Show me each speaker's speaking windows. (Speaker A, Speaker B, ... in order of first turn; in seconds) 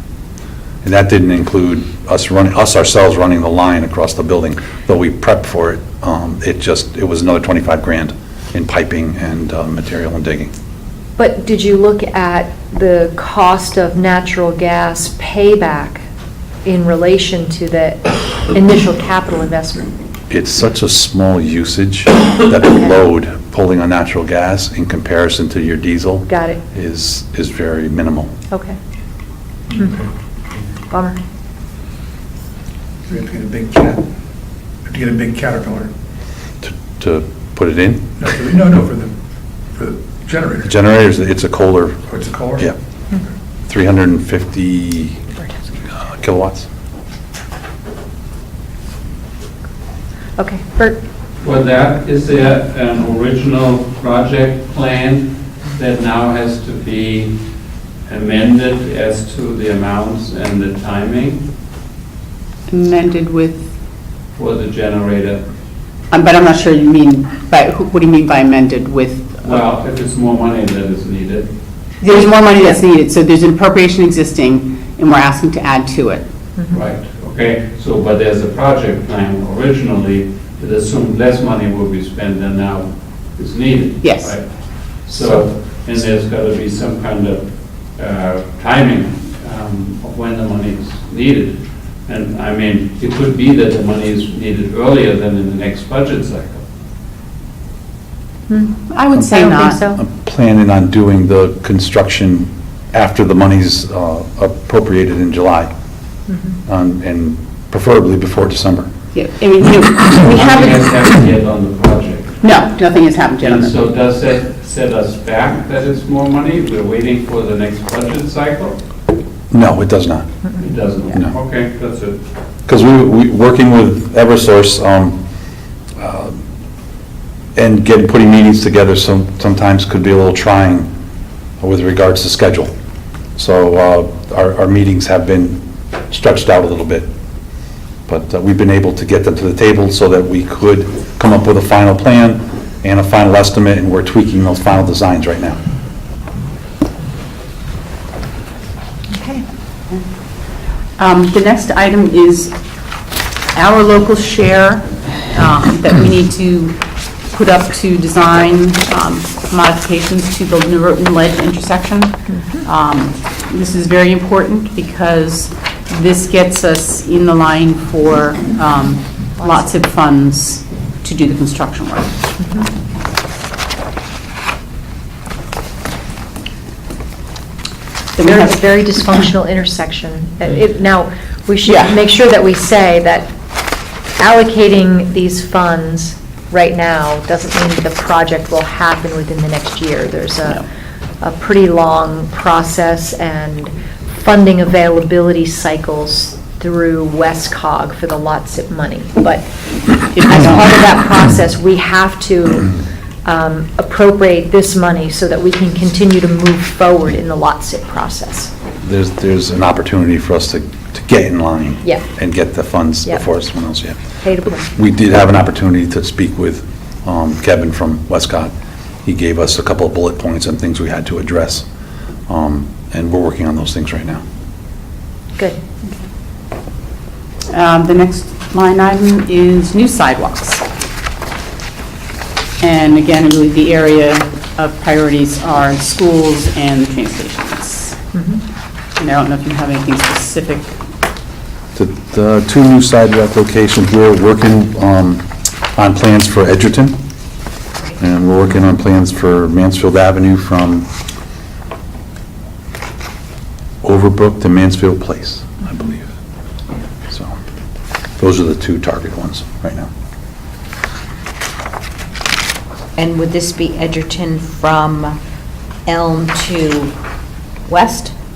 Speaker A: 0.8-10.5, 20.3-28.3, 36.6-38.1, 40.6-42.0, 43.7-45.2, 45.9-46.7, 99.1-105.7, 106.7-108.9, 119.5-120.4, 122.7-125.2, 126.0-126.4, 127.6-130.9, 131.6-132.7, 133.4-137.1, 138.1-145.6, 208.8-218.5, 219.1-221.7, 222.3-224.2, 241.8-247.0, 248.0-250.9, 253.8-256.1, 258.2-259.9
Speaker B: 11.2-16.0, 16.6-19.9, 26.3-26.6, 28.5-28.8, 30.9-31.2, 50.4-51.0, 98.5-100.0, 106.3-106.5, 149.1-149.4, 162.3-162.6, 169.4-169.9, 172.4-172.7, 178.2-183.3, 184.2-190.6, 191.2-199.5, 200.2-202.7, 203.2-208.5, 214.2-214.7, 238.1-238.4
Speaker C: 29.7-30.0, 33.1-34.0, 34.9-35.9, 38.2-39.1, 39.7-40.7, 42.1-42.7
Speaker D: 51.4-57.4, 58.1-61.4, 64.4-65.4, 69.4-71.5, 76.7-96.6, 110.2-112.4, 113.4-118.8, 120.6-122.2
Speaker E: 62.7-63.7, 66.1-69.4, 72.0-76.2, 84.0-84.3, 98.9-99.8, 109.2-110.8, 112.4-113.7, 151.0-152.6, 153.6-156.8, 157.3-172.2, 178.2-178.6, 181.7-181.9, 200.2-200.6, 227.5-230.5, 232.6-237.6, 239.0-240.7
Speaker F: 263.0-265.2, 265.9-266.9, 267.7-268.1